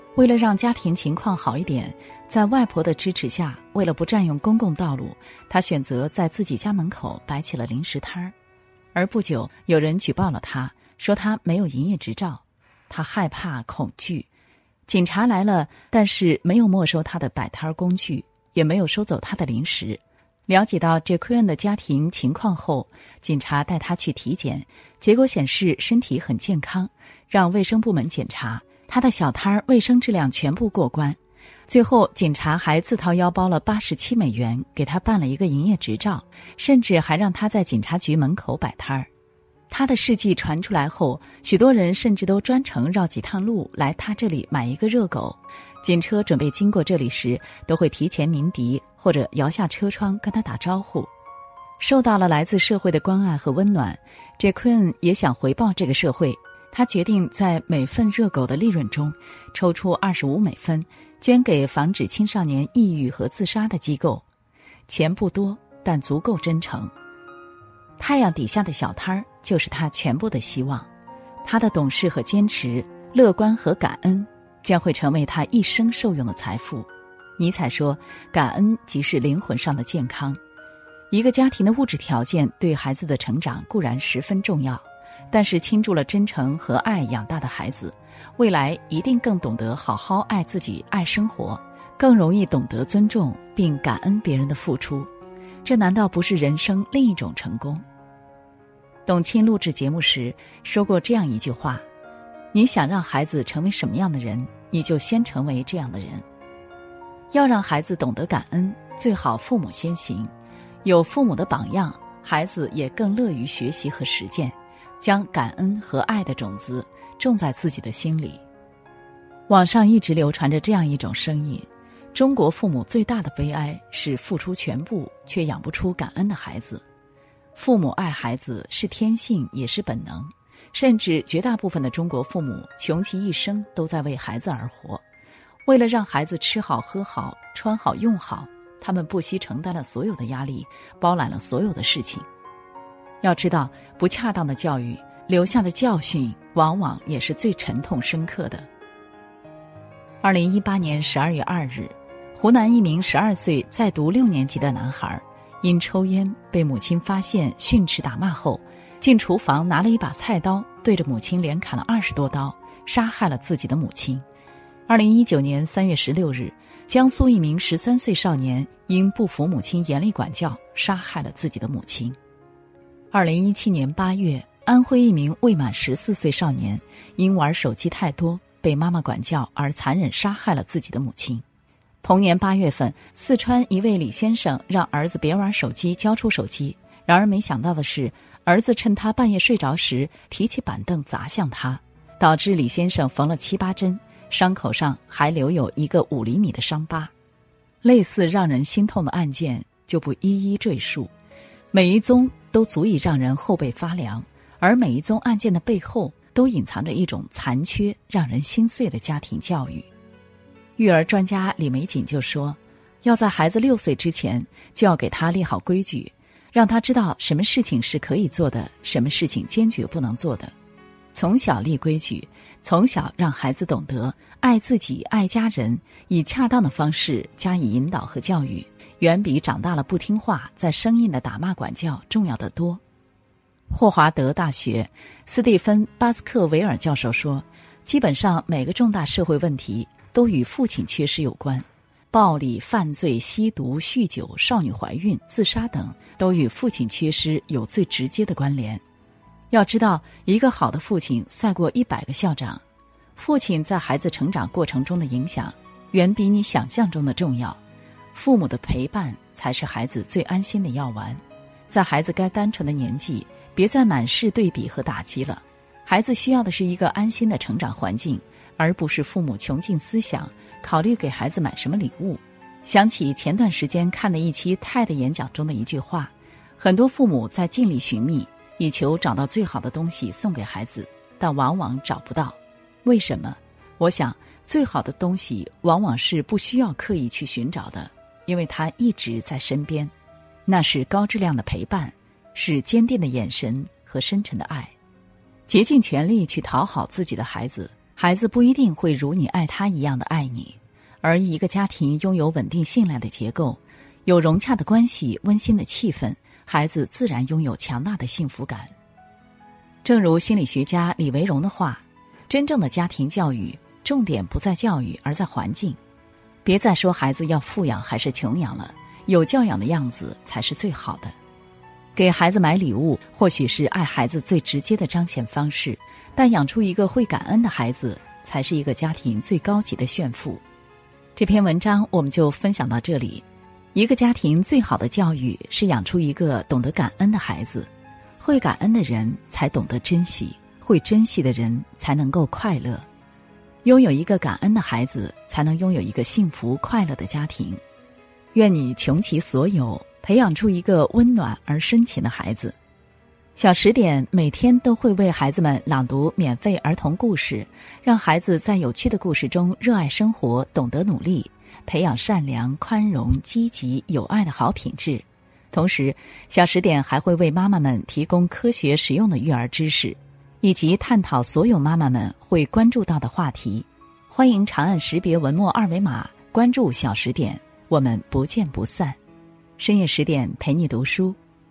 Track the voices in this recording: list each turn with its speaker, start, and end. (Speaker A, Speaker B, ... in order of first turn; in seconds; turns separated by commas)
Speaker A: 0.1-8.3, Speaker A: 8.9-14.3, Speaker A: 14.9-39.1, Speaker A: 39.7-51.1, Speaker A: 51.8-64.2, Speaker A: 64.9-66.9, Speaker A: 68.0-70.9, Speaker A: 71.4-80.4, Speaker A: 81.1-95.1, Speaker A: 95.6-97.8, Speaker A: 99.0-101.8, Speaker A: 102.5-106.2, Speaker A: 107.3-110.3, Speaker A: 110.8-118.4, Speaker A: 119.5-126.8, Speaker A: 127.5-135.0, Speaker A: 135.7-142.3, Speaker A: 143.2-148.7, Speaker A: 150.2-164.2, Speaker A: 164.9-172.2, Speaker A: 173.1-181.4, Speaker A: 182.0-197.1, Speaker A: 197.8-201.1, Speaker A: 201.7-209.9, Speaker A: 210.8-220.5, Speaker A: 221.1-232.8, Speaker A: 233.7-248.8, Speaker A: 249.5-252.6, Speaker A: 253.2-257.6, Speaker A: 258.1-289.9, Speaker A: 290.4-294.7, Speaker A: 295.5-308.7, Speaker A: 309.8-315.8, Speaker A: 316.4-321.1, Speaker A: 321.9-330.4, Speaker A: 331.1-342.9, Speaker A: 343.6-347.6, Speaker A: 348.3-352.6, Speaker A: 353.3-379.0, Speaker A: 379.6-381.2